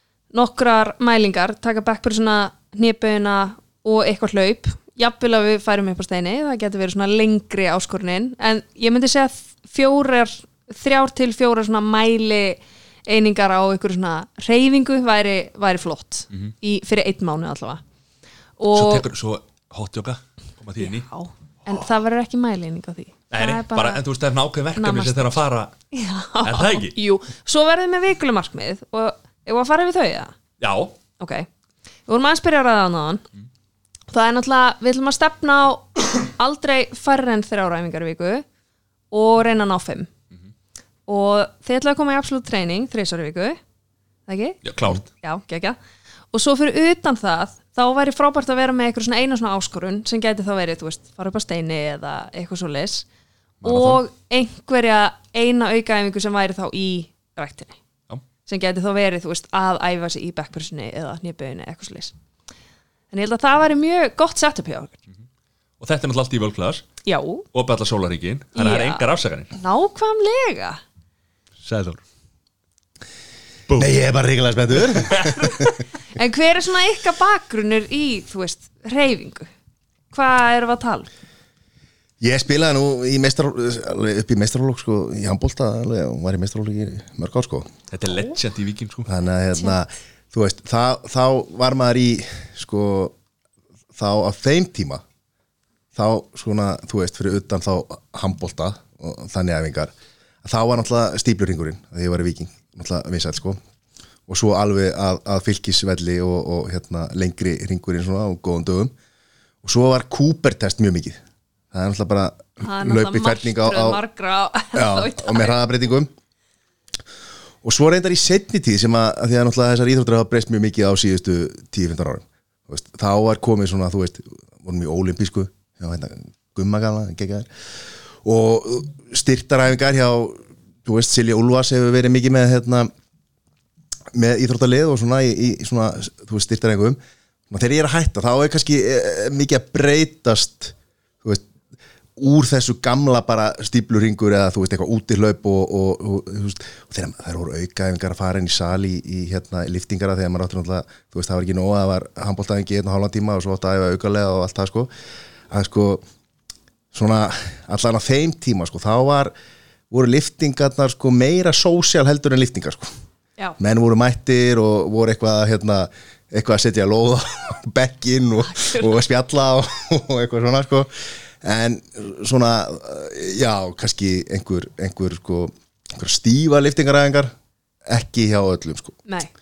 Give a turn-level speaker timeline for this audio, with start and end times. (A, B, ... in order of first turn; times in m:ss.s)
0:00.3-0:17.8 A
0:18.6-0:19.0 A
0:18.7-0:21.1 B
0:20.8-0:24.0 A
0:23.3-0:25.7 B
0:24.8-0:25.3 A
0:25.9-0:30.3 A
0:26.4-0:27.0 B
0:30.6-0:30.9 B
0:31.2-0:31.5 A
0:32.1-0:33.2 A
0:34.1-0:38.4 A
0:39.1-0:40.1 A
0:41.1-0:43.6 A
0:44.3-0:45.8 A
0:44.6-0:45.0 B
0:46.3-0:53.1 A
0:53.6-0:54.0 B
0:53.6-0:57.8 A
0:58.5-1:02.1 A
1:03.1-1:05.0 A
1:05.8-1:06.8 B
1:07.0-1:07.5 A
1:07.5-1:09.5 B
1:08.6-1:10.8 A
1:11.6-1:12.0 B
1:13.7-1:13.9 B
1:13.8-1:15.8 C
1:14.9-1:15.4 B
1:15.4-1:19.5 A
1:20.1-1:21.1 A
1:22.2-1:27.7 C
1:27.9-1:29.1 B
1:29.1-1:33.2 C
1:34.0-1:35.0 C
1:35.9-1:39.9 C
1:40.4-1:43.6 C
1:44.3-1:48.9 C
1:49.6-1:51.2 C
1:51.7-1:54.0 C
1:52.6-1:55.6 A
1:54.8-1:56.1 C
1:57.6-2:07.5 C
2:08.2-2:12.9 C
2:14.1-2:17.0 C
2:17.5-2:21.4 C
2:22.2-2:34.9 C
2:35.5-2:36.0 C
2:36.9-2:39.3 C
2:39.9-2:42.9 C
2:43.6-2:50.9 C
2:48.5-2:48.9 A
2:51.4-2:57.3 C
2:57.9-2:59.0 C